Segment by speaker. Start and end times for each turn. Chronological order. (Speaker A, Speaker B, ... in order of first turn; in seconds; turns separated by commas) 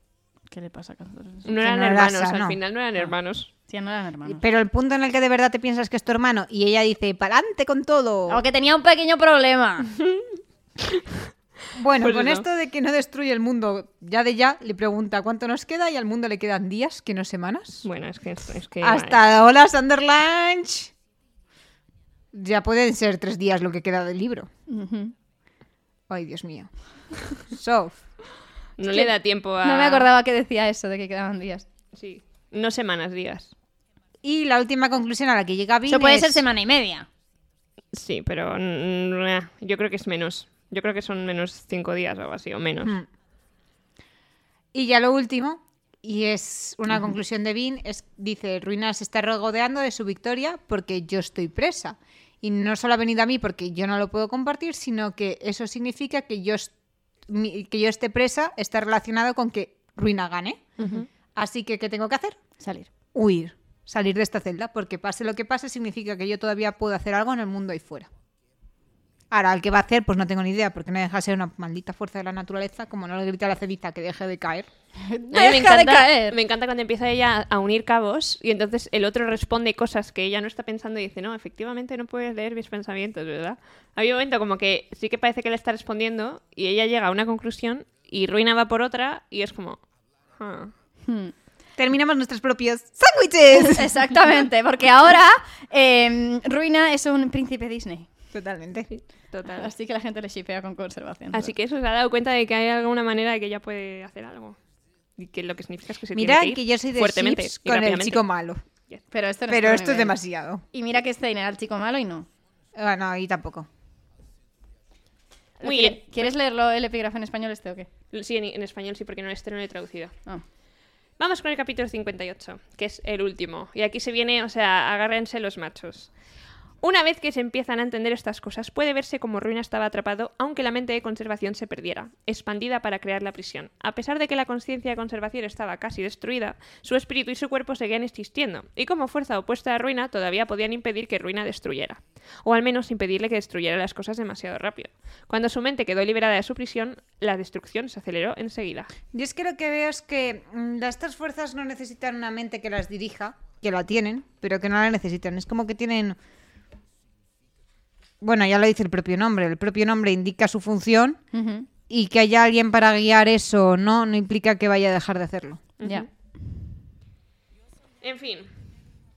Speaker A: 0.5-1.4, Speaker B: 1.4-3.5, Speaker C: 1.6-2.6, Speaker A: 3.7-4.4, Speaker C: 4.2-8.4, Speaker A: 8.3-9.9, Speaker B: 10.0-10.3, Speaker C: 11.7-17.9, Speaker B: 12.0-12.4, Speaker B: 17.8-19.2, Speaker C: 18.8-20.9, Speaker C: 22.3-24.5, Speaker A: 24.7-25.1, Speaker C: 26.1-26.7, Speaker C: 27.4-28.0, Speaker B: 28.8-30.1, Speaker A: 29.6-31.6, Speaker B: 31.9-33.5, Speaker C: 34.2-36.5, Speaker A: 35.9-37.1, Speaker B: 37.9-43.0, Speaker C: 44.7-56.7, Speaker C: 57.3-60.7, Speaker B: 60.8-61.1, Speaker C: 61.4-62.4, Speaker A: 62.6-62.9, Speaker C: 63.1-68.1, Speaker C: 69.3-74.7, Speaker A: 75.0-76.4, Speaker B: 75.3-89.8, Speaker B: 90.4-90.7, Speaker A: 91.1-91.3, Speaker C: 91.8-93.9, Speaker A: 93.6-98.1, Speaker C: 98.3-98.9, Speaker B: 98.9-99.7, Speaker A: 99.5-101.5, Speaker B: 101.3-104.6, Speaker B: 105.2-108.2, Speaker C: 106.1-108.6, Speaker A: 109.1-110.2, Speaker C: 109.5-110.6, Speaker A: 110.7-112.3, Speaker C: 112.8-113.7, Speaker B: 115.6-116.3, Speaker A: 115.6-117.9, Speaker B: 118.1-120.1, Speaker B: 121.2-126.1, Speaker B: 126.8-148.9, Speaker C: 149.1-156.2, Speaker C: 158.2-161.2, Speaker A: 161.3-161.7, Speaker C: 161.9-165.6, Speaker B: 165.8-166.1, Speaker B: 168.0-168.5